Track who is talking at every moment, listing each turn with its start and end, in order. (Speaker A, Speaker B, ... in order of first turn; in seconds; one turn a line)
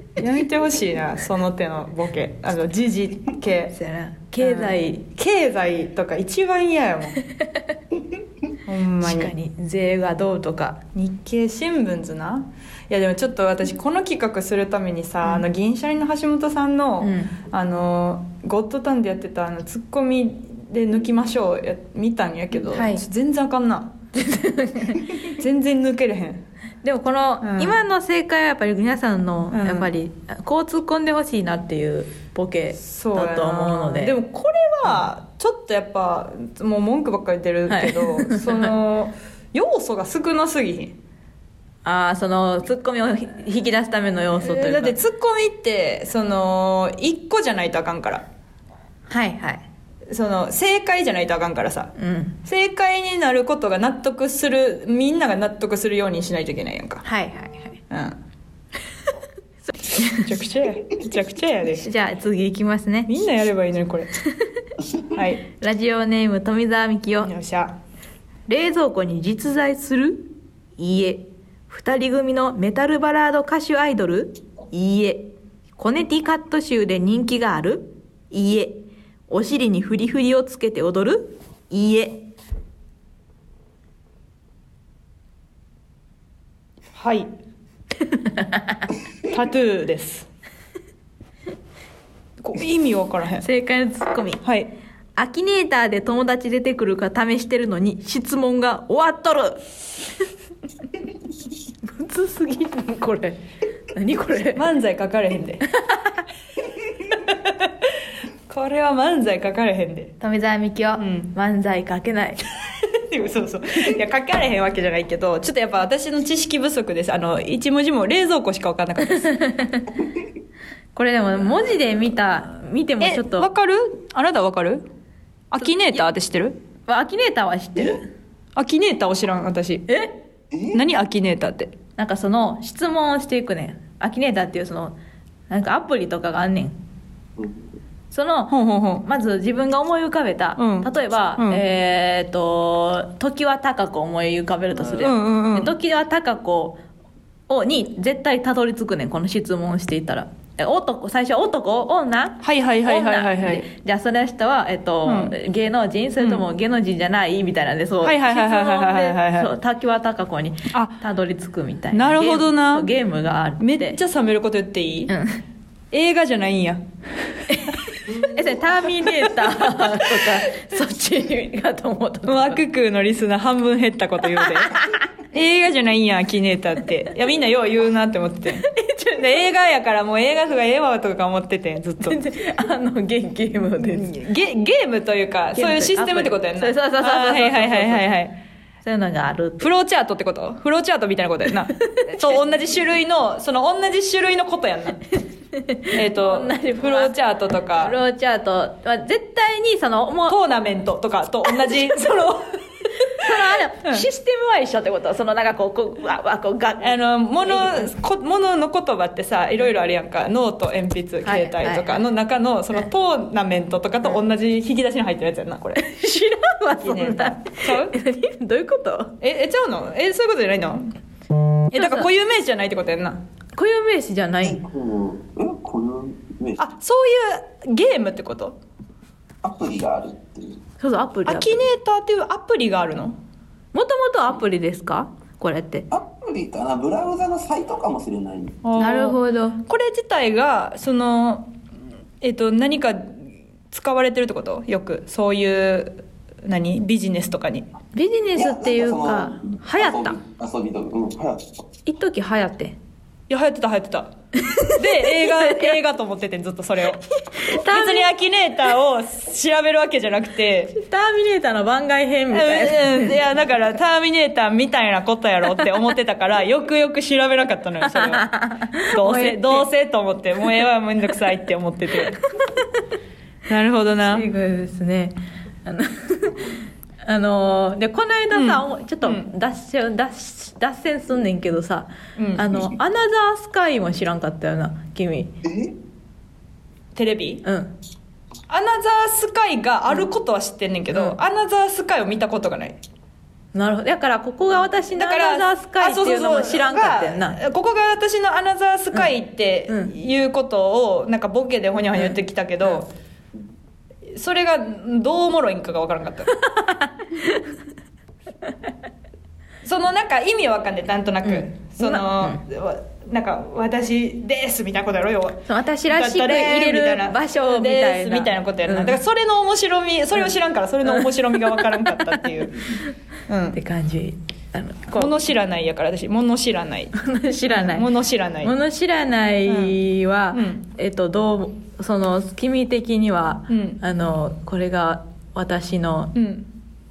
Speaker A: 0.2-3.8
Speaker B: 3.7-5.1
Speaker A: 4.4-7.2
Speaker A: 8.7-9.3
Speaker B: 9.0-10.8
Speaker A: 10.9-24.0
Speaker B: 17.0-17.4
Speaker B: 22.7-23.0
Speaker B: 24.1-25.2
Speaker A: 25.2-26.4
Speaker B: 26.8-34.2
Speaker A: 27.4-27.8
Speaker A: 29.5-29.9
Speaker A: 32.8-41.0
Speaker B: 37.7-38.7
Speaker B: 41.9-45.0
Speaker A: 44.4-48.2
Speaker B: 49.1-49.6
Speaker A: 50.1-57.0
Speaker B: 52.0-52.4
Speaker B: 57.0-57.8
Speaker A: 57.9-58.2
Speaker B: 59.6-60.3
Speaker A: 60.0-61.9
Speaker B: 61.8-63.1
Speaker A: 63.1-64.1
Speaker A: 65.1-65.4
Speaker B: 65.5-67.3
Speaker A: 67.2-67.8
Speaker B: 68.5-82.2
Speaker A: 86.9-87.3
Speaker B: 88.2-88.8
Speaker A: 89.2-90.3
Speaker A: 92.4-93.5
Speaker B: 93.4-94.4
Speaker A: 94.4-94.7
Speaker B: 95.2-99.6
Speaker B: 101.8-103.4
Speaker B: 103.9-104.7
Speaker A: 104.5-105.6
Speaker B: 105.7-106.2
Speaker A: 107.1-107.9
Speaker A: 108.5-110.2
Speaker B: 110.2-112.4
Speaker A: 111.0-111.3
Speaker A: 112.7-119.3
Speaker B: 119.2-119.9
Speaker B: 121.0-123.5
Speaker A: 123.0-124.8
Speaker A: 125.5-126.6
Speaker B: 126.9-128.1
Speaker A: 128.6-129.9
Speaker B: 129.9-130.1
Speaker C: 130.5-130.8
Speaker A: 130.7-131.7
Speaker B: 132.0-135.0
Speaker B: 135.5-136.8
Speaker C: 137.4-137.7
Speaker B: 138.1-146.8
Speaker A: 138.5-139.1
Speaker A: 140.6-141.6
Speaker A: 144.9-145.7
Speaker B: 147.5-164.0
Speaker A: 152.4-153.7
Speaker A: 155.1-155.3
Speaker A: 156.2-156.4
Speaker A: 158.0-159.5
Speaker A: 160.7-161.0
Speaker A: 161.9-162.9
Speaker A: 163.6-165.1
Speaker B: 165.1-165.4
Speaker A: 165.9-166.8
Speaker B: 167.5-172.6
Speaker A: 169.0-170.4
Speaker A: 172.3-174.8
Speaker B: 174.4-175.0
Speaker A: 175.3-182.2
Speaker B: 178.6-179.3
Speaker B: 182.0-184.2
Speaker A: 183.8-188.4
Speaker B: 185.6-188.1
Speaker B: 188.8-189.7
Speaker A: 189.6-195.0
Speaker B: 191.8-192.4
Speaker B: 195.5-197.2
Speaker A: 195.9-198.0
Speaker B: 197.8-200.4
Speaker A: 200.3-204.1
Speaker B: 203.1-207.9
Speaker A: 206.8-216.0
Speaker B: 211.2-212.0
Speaker B: 215.8-219.2
Speaker A: 216.8-217.9
Speaker A: 219.2-220.9
Speaker A: 221.7-223.2
Speaker B: 221.8-222.1
Speaker B: 223.6-224.6
Speaker C: 224.4-226.6
Speaker A: 226.6-228.6
Speaker C: 229.4-230.6
Speaker B: 230.8-231.6
Speaker A: 231.3-233.2
Speaker B: 233.7-235.9
Speaker C: 235.9-238.7
Speaker A: 238.6-241.5
Speaker B: 238.8-239.6
Speaker A: 242.2-243.2
Speaker A: 243.7-247.7
Speaker B: 247.9-250.2
Speaker C: 248.4-251.6
Speaker B: 251.9-252.8
Speaker A: 253.3-254.1
Speaker B: 254.5-255.8
Speaker A: 254.7-260.7
Speaker B: 257.3-258.1
Speaker B: 260.7-263.2
Speaker A: 262.3-268.3
Speaker B: 267.9-269.7
Speaker A: 268.8-272.2
Speaker A: 273.5-274.3
Speaker B: 274.1-285.4
Speaker A: 278.3-279.3
Speaker A: 282.2-282.6
Speaker C: 285.4-285.8
Speaker A: 286.9-287.4
Speaker B: 287.4-287.7
Speaker A: 288.5-292.8
Speaker B: 293.5-297.4
Speaker A: 295.0-302.9
Speaker B: 299.7-299.9
Speaker A: 304.1-306.4
Speaker B: 306.4-307.5
Speaker A: 309.6-322.7
Speaker B: 311.2-312.4
Speaker B: 315.5-319.0
Speaker A: 323.3-323.6
Speaker B: 323.5-325.2
Speaker A: 324.9-326.9
Speaker B: 326.9-327.9
Speaker A: 327.5-328.5
Speaker B: 328.4-336.2
Speaker A: 329.5-329.8
Speaker A: 330.3-330.6
Speaker A: 333.5-333.8
Speaker A: 336.1-336.5